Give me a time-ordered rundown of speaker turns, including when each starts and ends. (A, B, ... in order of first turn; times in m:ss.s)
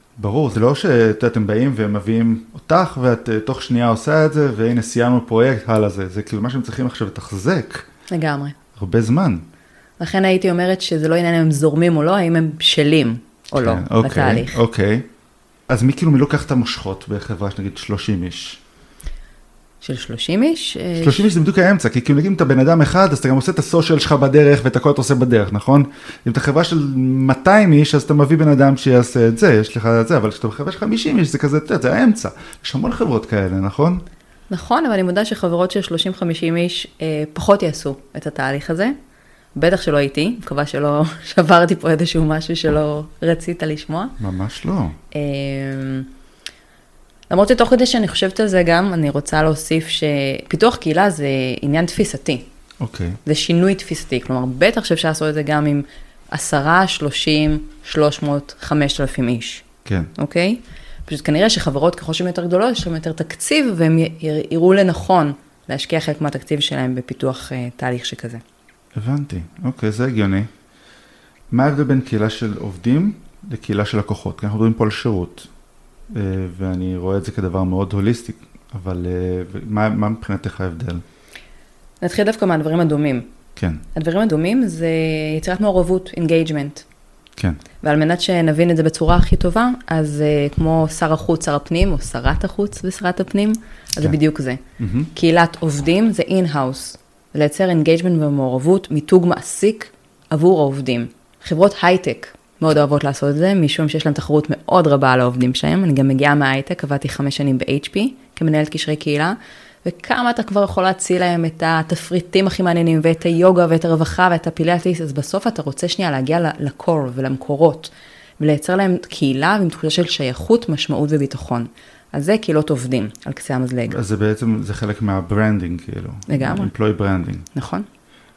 0:00.2-0:07.8 A
0:08.1-0:08.6 B
0:08.8-0:09.4 A
0:10.0-0:14.6 B
0:13.5-0:15.1 A
0:15.7-0:18.6 A
0:19.8-0:21.3 B
0:21.0-0:34.0 A
0:34.5-0:38.9 B
0:39.6-0:44.1 B
0:44.2-0:45.0 A
0:45.1-0:46.1 B
0:47.3-0:52.4 B
0:52.8-0:53.2 A
0:53.2-0:59.6 B
1:00.2-1:08.4 B
1:09.0-1:10.5 A
1:11.5-1:15.5 A
1:16.1-1:21.0 A
1:22.0-1:23.3 B
1:23.6-1:23.8 A
1:23.9-1:26.8 B
1:27.8-1:34.6 B
1:34.8-1:35.1 A
1:35.1-2:04.0 B
2:03.9-2:07.4 A
2:06.3-2:06.7 B
2:07.5-2:07.8 B